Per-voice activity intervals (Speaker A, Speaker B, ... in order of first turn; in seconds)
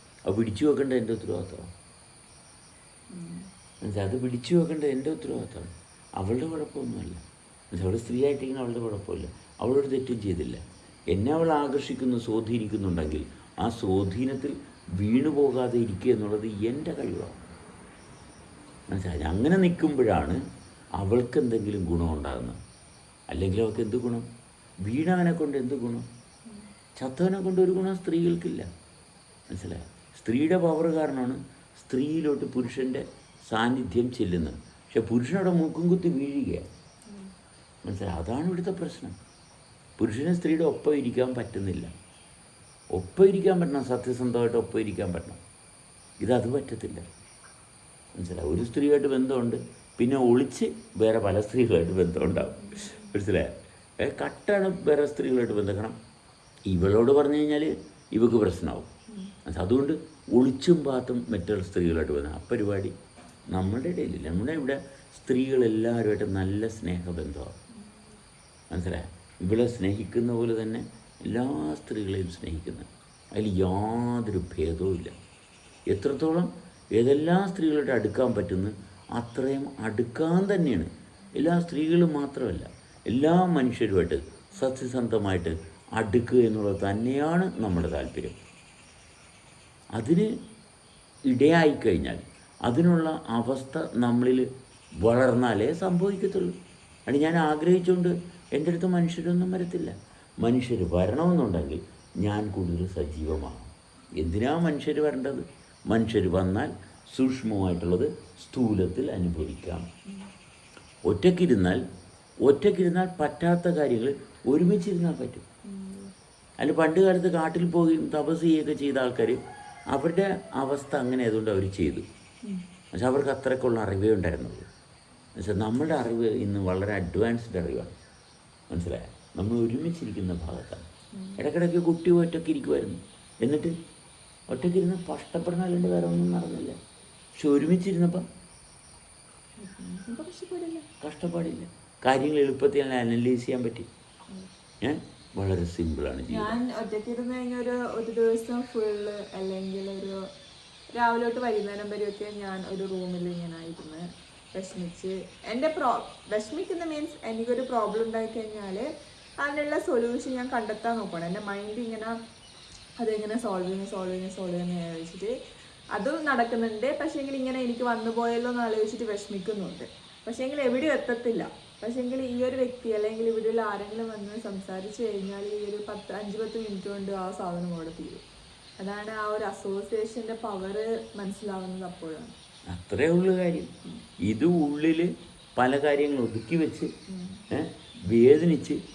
Speaker A: 0.3-1.7, 3.8-7.2, 7.7-17.4, 18.9-20.4, 21.0-22.6, 23.3-24.3, 24.8-26.1, 27.0-28.7, 29.5-36.7, 37.8-39.1, 40.0-41.9, 42.9-45.4, 46.2-47.1, 48.1-56.0, 56.7-58.9, 59.5-62.9, 63.5-67.5, 68.7-75.1, 75.9-88.4, 89.9-90.3, 91.3-94.5, 95.0-96.5, 97.1-109.9, 111.0-111.8, 112.4-115.4, 116.6-119.4, 119.9-122.0, 122.9-124.7, 125.4-128.0, 128.7-133.7, 134.5-136.8, 137.4-138.2, 141.0-143.9, 144.8-146.6, 182.7-183.7, 184.2-186.9, 187.5-188.8
Speaker B: 3.1-3.5, 37.1-37.3, 52.2-53.1, 59.1-59.3, 115.6-116.1, 131.1-131.4, 139.6-140.8, 146.3-150.2, 150.9-158.9, 159.4-162.2, 163.0-165.3, 165.9-178.2, 178.8-182.3, 187.1-187.4